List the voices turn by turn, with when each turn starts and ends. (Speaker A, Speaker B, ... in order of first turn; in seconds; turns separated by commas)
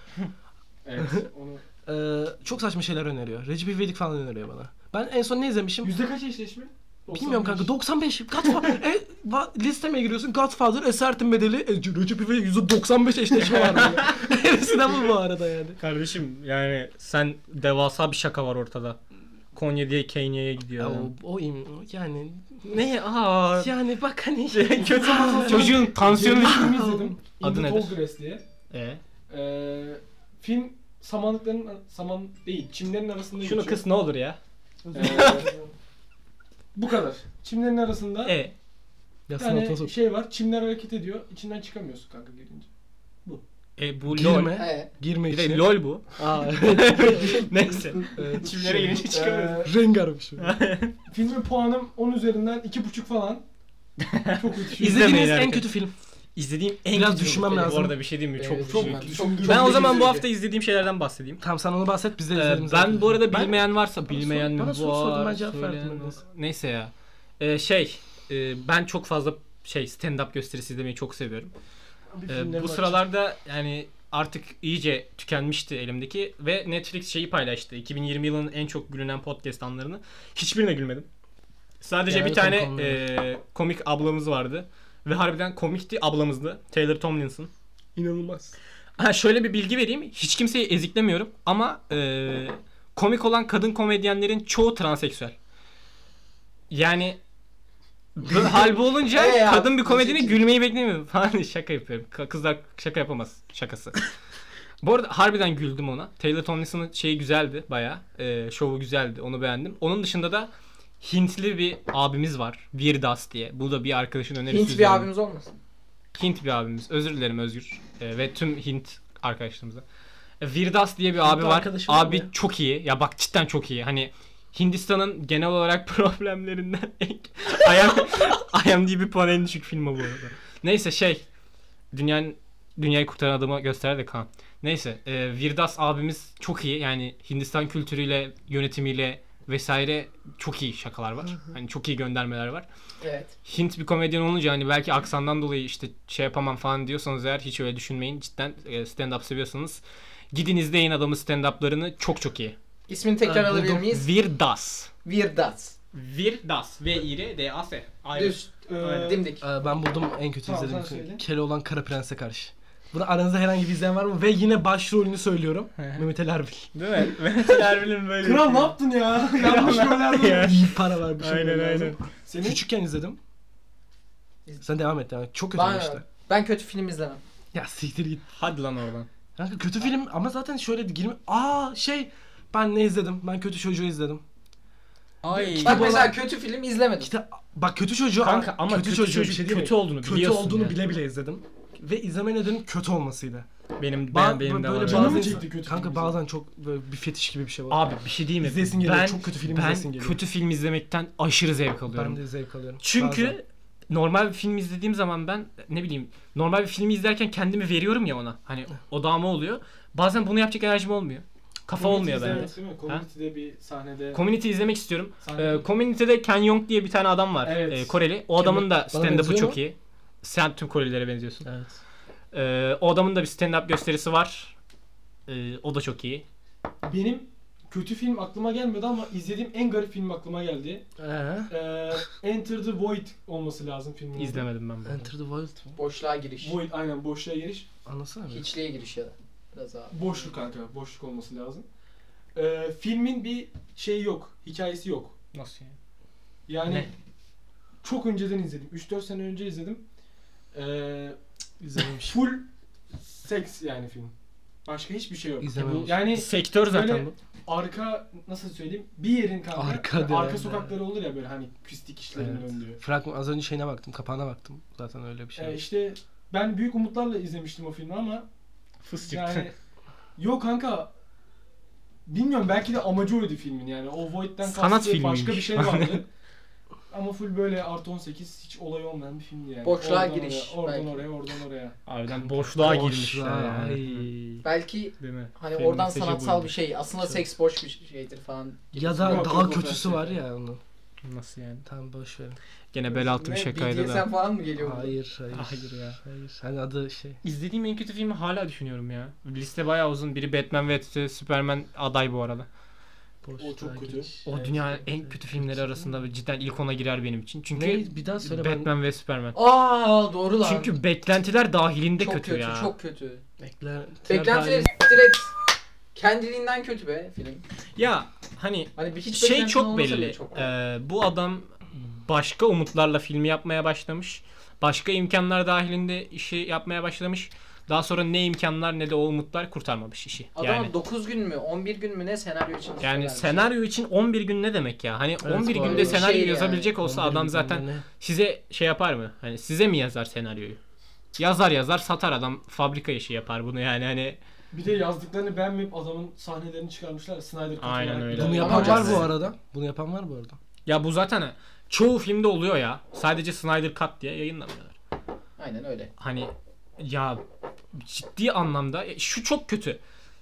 Speaker A: 0.8-1.6, Speaker B: 1.9-5.9, Speaker A: 5.8-7.7, Speaker B: 7.1-15.8, Speaker A: 8.5-8.7, Speaker C: 13.5-14.3, Speaker A: 13.8-14.0, Speaker C: 15.8-19.0, Speaker C: 19.5-21.1, Speaker B: 20.8-22.9, Speaker C: 22.6-23.7, Speaker B: 23.6-27.2, Speaker C: 24.5-26.9, Speaker A: 24.8-28.4, Speaker C: 27.4-28.0, Speaker C: 28.7-29.0, Speaker A: 29.3-33.8, Speaker C: 33.4-34.4, Speaker B: 34.9-35.6, Speaker A: 34.9-35.5, Speaker C: 35.0-35.5, Speaker A: 36.8-38.4, Speaker C: 38.2-38.5, Speaker B: 39.3-39.9, Speaker A: 39.4-42.7, Speaker C: 43.8-44.7, Speaker B: 44.1-47.5, Speaker D: 44.5-44.9, Speaker C: 45.3-49.6, Speaker B: 48.2-49.1, Speaker A: 49.1-49.7, Speaker B: 49.6-50.5, Speaker C: 50.4-50.9, Speaker A: 51.1-53.5, Speaker C: 54.0-55.7, Speaker A: 54.4-55.1, Speaker B: 54.8-55.9, Speaker C: 56.4-61.4, Speaker B: 56.9-58.0, Speaker D: 58.4-60.2, Speaker A: 58.7-60.1, Speaker B: 61.4-66.2, Speaker C: 62.3-71.5, Speaker B: 72.1-73.0, Speaker C: 72.3-81.1, Speaker C: 81.8-87.5, Speaker B: 82.1-83.0, Speaker B: 88.0-88.6, Speaker C: 89.0-95.3, Speaker C: 96.7-97.2, Speaker C: 98.2-104.1, Speaker D: 99.1-100.4, Speaker C: 104.8-110.5, Speaker C: 111.0-115.1, Speaker D: 114.5-115.5, Speaker C: 116.2-119.8, Speaker C: 120.4-131.2, Speaker B: 121.2-122.3, Speaker C: 131.9-142.7, Speaker D: 143.0-143.3, Speaker C: 143.4-152.6, Speaker D: 152.9-154.1, Speaker B: 153.2-153.9, Speaker C: 153.9-154.9, Speaker D: 155.1-155.8, Speaker C: 155.9-159.2, Speaker D: 158.2-159.4, Speaker A: 158.5-159.3, Speaker B: 159.4-166.8, Speaker A: 160.4-161.2, Speaker C: 165.8-166.1, Speaker C: 166.7-172.0, Speaker A: 168.2-170.5, Speaker B: 169.7-173.2, Speaker A: 172.3-172.6, Speaker B: 174.6-176.0, Speaker D: 175.6-177.2, Speaker B: 177.5-178.2, Speaker C: 178.3-179.1, Speaker B: 179.4-184.2, Speaker C: 185.2-186.1, Speaker B: 185.3-186.2, Speaker D: 185.6-187.1, Speaker B: 187.0-193.5, Speaker C: 188.2-190.8, Speaker C: 193.8-195.4, Speaker B: 194.1-200.2, Speaker A: 194.8-196.2, Speaker C: 197.7-202.2, Speaker B: 201.9-203.4, Speaker C: 202.8-213.1, Speaker A: 211.8-214.2, Speaker C: 214.1-221.5, Speaker A: 215.2-215.7, Speaker A: 217.4-218.0, Speaker B: 218.5-219.6, Speaker B: 221.4-221.8, Speaker C: 222.3-224.6, Speaker C: 225.3-226.2, Speaker A: 226.8-230.8, Speaker B: 231.0-231.5, Speaker A: 231.5-234.4, Speaker C: 234.2-235.1, Speaker B: 234.8-235.8, Speaker D: 235.8-236.6, Speaker A: 236.4-237.7, Speaker B: 237.9-238.5, Speaker D: 238.3-240.3, Speaker A: 239.9-241.7, Speaker A: 242.3-245.2, Speaker C: 245.3-245.7, Speaker A: 246.5-246.9, Speaker A: 247.8-249.8, Speaker A: 250.5-251.2, Speaker B: 251.6-252.2, Speaker A: 251.9-254.1, Speaker A: 254.7-262.8, Speaker B: 255.4-256.2, Speaker C: 256.0-257.1, Speaker B: 259.5-260.8, Speaker B: 262.2-265.6, Speaker A: 265.4-268.3, Speaker C: 268.8-269.5, Speaker A: 269.0-269.6, Speaker A: 270.2-270.9, Speaker A: 272.1-276.1, Speaker C: 274.4-276.0, Speaker A: 276.9-281.8, Speaker D: 279.6-281.1, Speaker C: 281.9-284.4, Speaker B: 282.2-284.2, Speaker D: 284.4-289.5, Speaker C: 285.0-286.5, Speaker B: 287.0-287.3, Speaker B: 288.8-290.6, Speaker A: 289.0-290.2, Speaker C: 291.0-291.6, Speaker B: 291.6-292.4, Speaker C: 292.7-294.1, Speaker D: 293.1-294.9, Speaker B: 294.6-297.2, Speaker C: 295.3-296.0, Speaker C: 297.2-302.5, Speaker B: 303.2-305.9, Speaker A: 303.4-304.3, Speaker C: 304.2-309.4, Speaker B: 307.5-308.7, Speaker D: 309.3-310.7, Speaker C: 310.4-312.7, Speaker D: 312.0-313.2, Speaker B: 313.4-314.8, Speaker D: 314.1-315.3, Speaker D: 315.9-317.4, Speaker C: 317.8-330.7, Speaker D: 318.8-320.5, Speaker D: 330.4-333.5, Speaker C: 332.8-340.6, Speaker B: 335.2-336.1, Speaker D: 335.5-336.7, Speaker B: 336.8-337.9, Speaker C: 341.2-344.2, Speaker A: 344.5-349.1, Speaker C: 347.6-349.1, Speaker B: 348.1-350.4, Speaker D: 348.4-349.1, Speaker C: 350.7-354.8, Speaker D: 355.4-355.9, Speaker C: 356.0-357.2, Speaker C: 357.7-359.8